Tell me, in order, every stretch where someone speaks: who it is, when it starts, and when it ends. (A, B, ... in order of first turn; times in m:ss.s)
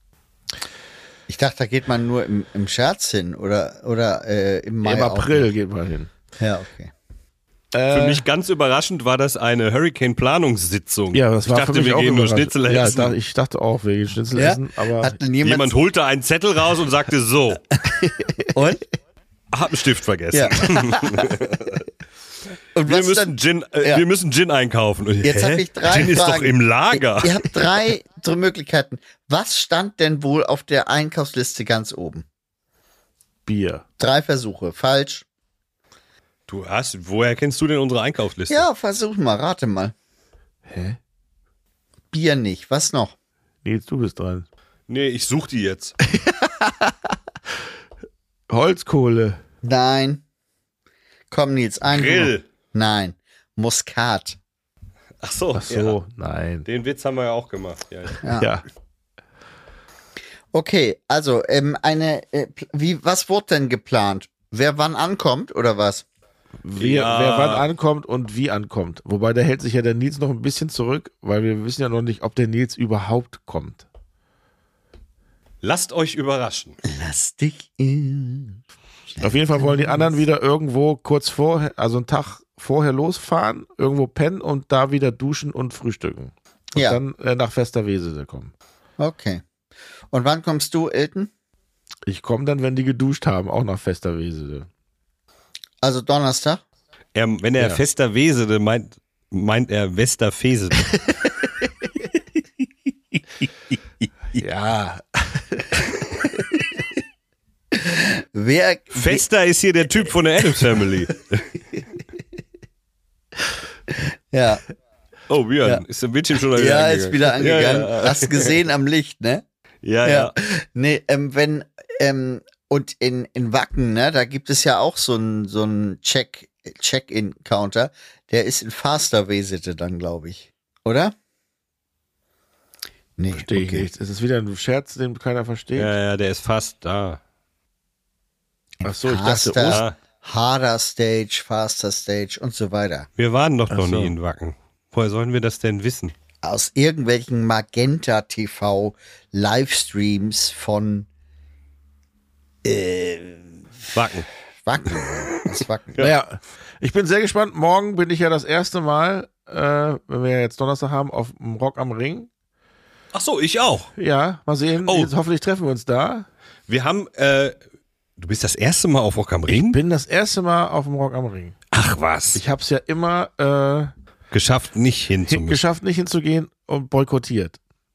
0:01.3-0:05.5 A
0:04.8-0:06.1 B
0:06.4-0:06.9 A
0:07.7-0:08.2 B
0:07.9-0:13.1 C
0:11.1-0:15.2 B
0:14.3-0:15.7 A
0:15.4-0:17.6 C
0:18.5-0:18.8 A
0:19.5-0:21.8 C
0:20.3-0:21.2 A
0:22.7-0:24.0 A
0:22.8-0:27.5 C
0:25.2-0:32.2 A
0:33.4-0:33.8 B
0:34.0-0:35.2 A
0:36.5-0:38.6 C
0:38.5-0:39.9 A
0:40.7-0:41.0 B
0:42.1-0:43.1 A
0:43.6-0:44.5 B
0:44.9-0:46.0 C
0:46.1-0:46.9 B
0:48.5-0:49.4 B
0:49.6-0:50.2 A
0:51.3-0:54.4 A
0:51.8-0:52.4 C
0:55.2-0:56.0 C
0:55.5-0:56.6 B
0:56.6-0:58.2 C
0:58.2-0:58.5 A
0:58.4-0:58.6 B
1:00.5-1:06.0 A
1:06.6-1:13.8 B
1:06.8-1:07.6 C
1:15.6-1:16.8 C
1:16.8-1:18.6 A
1:19.2-1:20.1 A
1:19.2-1:28.5 B
1:29.0-1:29.4 A
1:30.1-1:31.3 A
1:32.1-1:34.7 B
1:35.8-1:36.6 A
1:37.1-1:40.9 C
1:44.4-1:45.7 B
1:47.7-1:49.2 A
1:48.9-1:51.5 C
1:54.0-1:54.6 A
1:55.3-1:58.5 C
1:56.5-1:59.4 A
1:59.8-2:00.3 C
2:00.0-2:11.1 A
2:13.2-2:13.9 A
2:13.3-2:15.9 B
2:15.8-2:17.2 C
2:18.8-2:23.1 A
2:18.8-2:19.8 B
2:19.6-2:20.0 C
2:23.2-2:26.1 C
2:23.7-2:24.1 B
2:26.4-2:31.1 A
2:32.6-2:33.6 A
2:33.9-2:34.3 C
2:34.6-2:36.1 A
2:36.0-2:42.3 B
2:43.1-2:43.9 C
2:44.0-2:46.2 B
2:44.8-2:45.1 C
2:46.7-2:47.6 C
2:48.2-2:49.8 C
2:49.5-2:51.5 B
2:51.7-2:52.4 C
2:52.3-2:53.9 B
2:54.3-2:55.6 C
2:55.3-2:57.6 B